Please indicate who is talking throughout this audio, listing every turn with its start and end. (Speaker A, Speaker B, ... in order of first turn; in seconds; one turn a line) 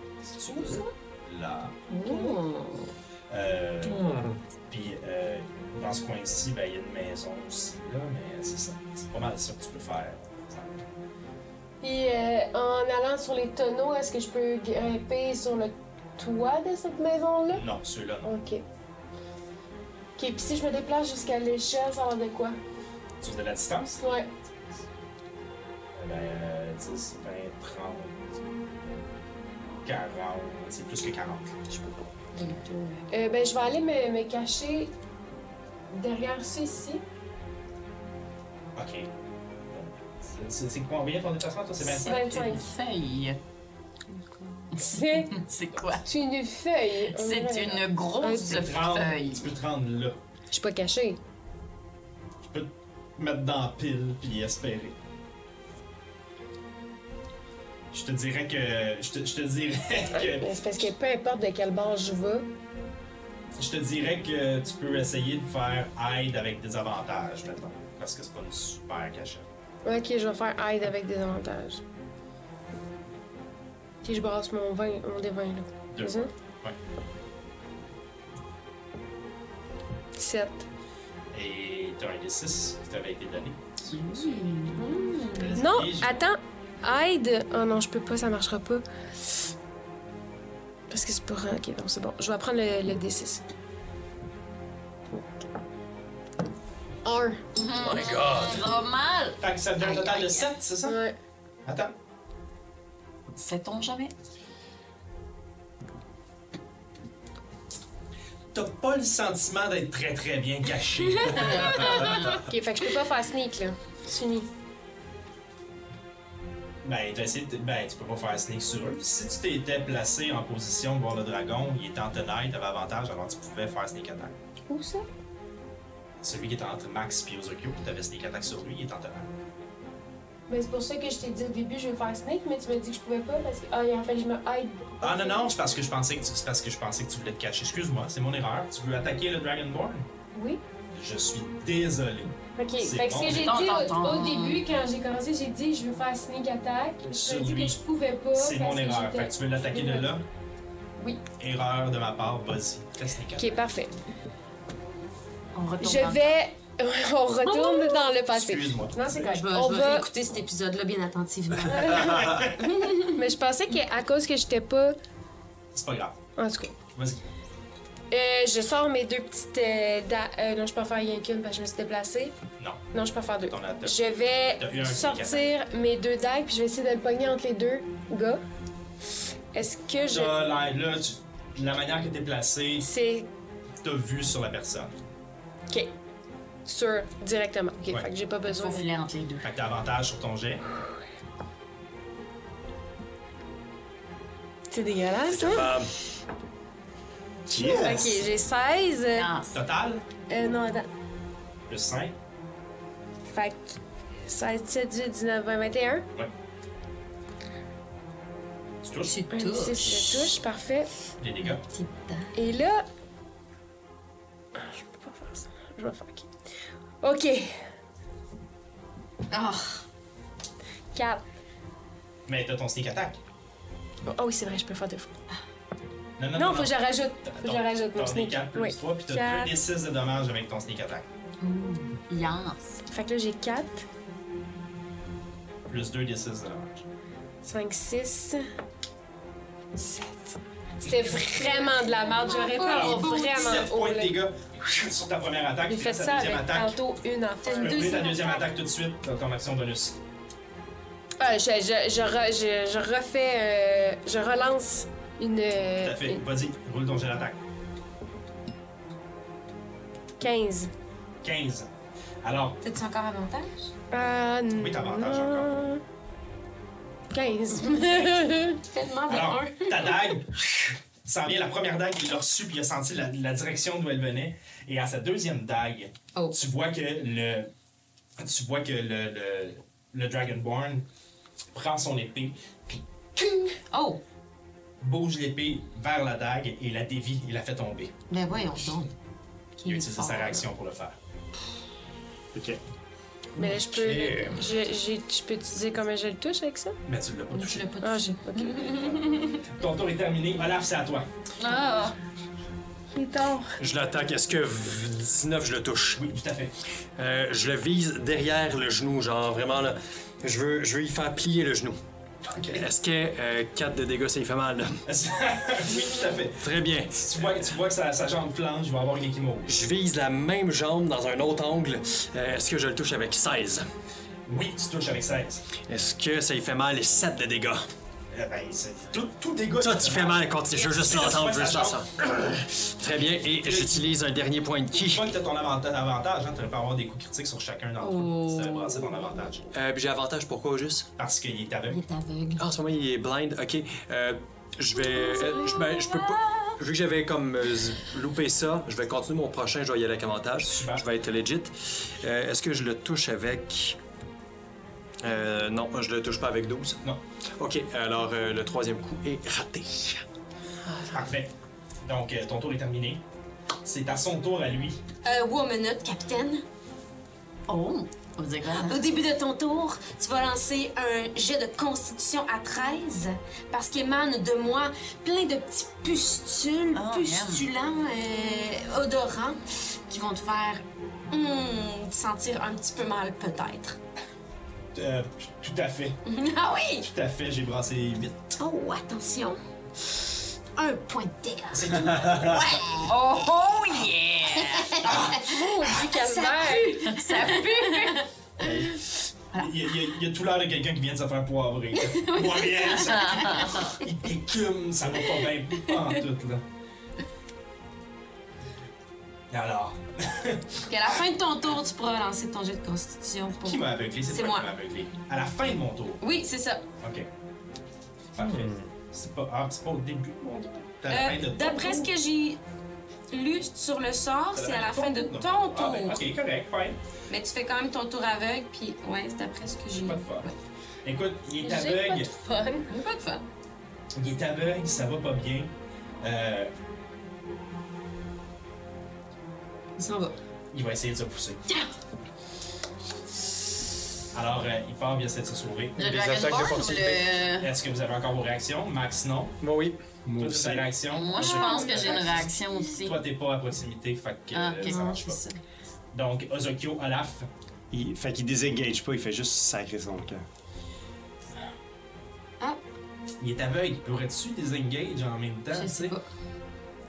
Speaker A: 0.4-1.8
Speaker B: 0.5-0.8
Speaker B: 1.9-2.4
Speaker C: 1.9-2.5
Speaker A: 3.3-4.1
Speaker D: 3.8-4.4
Speaker A: 4.7-10.8
Speaker B: 11.8-17.7
Speaker A: 17.5-18.4
Speaker B: 18.2-18.6
Speaker B: 20.2-22.6
Speaker A: 23.2-24.0
Speaker B: 24.0-24.3
Speaker A: 25.9-28.2
Speaker A: 29.8-31.9
Speaker C: 32.4-33.0
Speaker B: 33.1-34.9
Speaker B: 35.9-37.0
Speaker A: 38.8-39.1
Speaker A: 39.7-42.4
Speaker E: 41.8-43.4
Speaker B: 41.9-42.7
Speaker B: 44.5-45.3
Speaker E: 44.7-46.1
Speaker B: 46.0-48.8
Speaker E: 47.1-49.5
Speaker A: 48.5-50.2
Speaker B: 50.5-51.2
Speaker A: 52.4-55.0
Speaker A: 57.9-60.6
Speaker B: 60.1-62.5
Speaker A: 63.6-69.5
Speaker B: 69.8-71.8
Speaker B: 74.0-76.3
Speaker A: 75.9-76.8
Speaker B: 80.2-80.7
Speaker A: 81.3-86.2
Speaker E: 83.9-85.6
Speaker B: 84.8-88.8
Speaker B: 90.9-93.4
Speaker B: 95.1-95.5
Speaker B: 97.0-97.4
Speaker E: 97.6-100.4
Speaker D: 97.8-98.6
Speaker A: 99.4-101.0
Speaker B: 100.8-101.2
Speaker A: 101.7-102.0
Speaker E: 103.4-104.1
Speaker A: 108.5-112.4
Speaker B: 111.7-114.5
Speaker A: 116.8-124.4
Speaker B: 124.7-125.1
Speaker A: 126.2-129.3
Speaker B: 130.5-135.6
Speaker A: 135.0-140.1
Speaker B: 140.3-140.6
Speaker A: 140.9-143.6
Speaker B: 142.6-150.2
Speaker E: 143.3-144.6
Speaker A: 147.1-147.8
Speaker A: 148.3-150.3
Speaker A: 151.4-153.7
Speaker B: 153.4-153.9
Speaker E: 155.6-156.4
Speaker B: 155.8-160.1
Speaker C: 157.5-158.1
Speaker A: 158.3-159.3
Speaker C: 159.2-163.0
Speaker B: 161.7-162.4
Speaker A: 162.0-162.6
Speaker B: 163.1-165.0
Speaker A: 165.7-166.2
Speaker B: 166.4-166.8
Speaker A: 166.9-167.2
Speaker B: 168.1-172.4
Speaker B: 172.9-178.4
Speaker A: 173.4-175.5
Speaker B: 179.5-180.4
Speaker A: 180.1-182.9
Speaker B: 182.8-183.3
Speaker A: 183.8-185.0
Speaker B: 185.7-185.9
Speaker B: 186.7-188.9
Speaker E: 188.5-189.5
Speaker A: 189.4-190.6
Speaker B: 194.7-195.8
Speaker D: 195.3-195.9
Speaker F: 197.5-198.3
Speaker B: 197.5-199.4
Speaker E: 199.1-199.6
Speaker A: 199.5-200.1
Speaker B: 200.3-200.9
Speaker A: 201.7-202.2
Speaker B: 203.3-206.1
Speaker A: 208.8-209.2
Speaker C: 209.1-210.3
Speaker B: 209.3-210.9
Speaker A: 211.2-211.6
Speaker C: 211.4-212.3
Speaker B: 212.3-212.9
Speaker B: 214.6-216.3
Speaker B: 217.0-217.6
Speaker C: 219.3-219.8
Speaker B: 220.9-221.2
Speaker A: 222.3-223.2
Speaker B: 224.0-225.2
Speaker A: 226.2-231.1
Speaker B: 226.3-229.5
Speaker E: 231.4-232.8
Speaker C: 231.5-231.8
Speaker B: 232.9-233.8
Speaker A: 235.7-236.8
Speaker B: 237.4-238.4
Speaker B: 239.8-244.2
Speaker C: 242.1-243.6
Speaker A: 242.6-246.8
Speaker B: 245.7-248.1
Speaker C: 247.4-248.5
Speaker A: 247.6-250.0
Speaker B: 251.2-256.2
Speaker A: 255.8-257.4
Speaker B: 260.2-260.7
Speaker A: 261.2-261.7
Speaker A: 262.2-262.6
Speaker C: 262.6-263.7
Speaker B: 263.9-265.8
Speaker A: 264.6-265.5
Speaker B: 267.1-268.6
Speaker C: 268.7-270.2
Speaker A: 269.1-277.5
Speaker A: 278.2-280.9
Speaker A: 281.5-283.5
Speaker C: 283.7-284.0
Speaker A: 284.8-287.9
Speaker C: 288.1-288.9
Speaker C: 289.6-290.5
Speaker A: 289.6-291.0
Speaker F: 292.3-292.6
Speaker B: 293.4-296.8
Speaker D: 293.4-294.4
Speaker A: 296.9-297.7
Speaker C: 297.3-298.9
Speaker B: 297.8-298.9
Speaker A: 299.6-301.1
Speaker E: 301.4-301.9
Speaker B: 303.0-303.5
Speaker D: 303.6-306.0
Speaker A: 306.0-306.6
Speaker D: 307.0-311.8
Speaker A: 312.2-312.7
Speaker D: 312.5-314.8
Speaker A: 314.9-319.6
Speaker D: 316.4-317.5
Speaker D: 319.5-323.7
Speaker A: 324.3-325.5
Speaker D: 325.6-327.7
Speaker A: 328.1-331.9
Speaker D: 329.6-335.1
Speaker A: 333.4-333.8
Speaker A: 334.8-339.5
Speaker C: 337.8-338.7
Speaker D: 339.5-340.9
Speaker A: 341.0-341.8
Speaker C: 341.7-342.4
Speaker D: 342.4-353.8
Speaker C: 345.1-345.8
Speaker A: 350.4-350.9
Speaker D: 355.0-356.8
Speaker D: 357.4-360.1
Speaker A: 360.9-361.3
Speaker A: 361.8-363.0
Speaker A: 363.6-364.8
Speaker C: 365.0-366.4
Speaker E: 367.5-368.8
Speaker C: 368.6-383.8
Speaker E: 376.7-377.5
Speaker A: 384.8-386.0
Speaker C: 386.1-386.9
Speaker A: 386.8-388.3
Speaker C: 388.4-389.4
Speaker C: 390.6-392.9
Speaker A: 391.5-392.6
Speaker E: 392.8-394.8
Speaker C: 394.4-398.1
Speaker A: 394.8-395.3
Speaker B: 395.3-396.9
Speaker E: 396.8-398.1
Speaker A: 398.4-398.7
Speaker A: 399.3-406.4
Speaker C: 401.8-403.6
Speaker E: 402.9-403.7
Speaker A: 409.3-410.6
Speaker C: 410.7-414.5
Speaker A: 413.4-416.0
Speaker C: 416.0-416.6
Speaker A: 416.8-417.1
Speaker A: 418.1-421.9
Speaker D: 418.2-418.7
Speaker C: 420.9-422.4
Speaker C: 423.1-426.0
Speaker A: 424.3-426.8
Speaker C: 427.1-430.4
Speaker A: 429.7-430.3
Speaker A: 430.8-432.1
Speaker B: 431.4-432.7
Speaker C: 432.7-433.2
Speaker A: 434.0-436.5
Speaker C: 439.8-440.2
Speaker A: 440.5-441.4
Speaker A: 444.1-445.9
Speaker E: 445.8-447.5
Speaker D: 445.8-447.0
Speaker A: 447.3-449.4
Speaker D: 449.4-449.8
Speaker F: 450.1-450.7
Speaker A: 450.2-455.2
Speaker E: 450.9-453.0
Speaker C: 451.2-452.2
Speaker E: 454.3-455.0
Speaker C: 454.6-455.4
Speaker A: 455.9-457.3
Speaker F: 457.7-460.2
Speaker A: 463.2-466.0
Speaker C: 465.5-466.1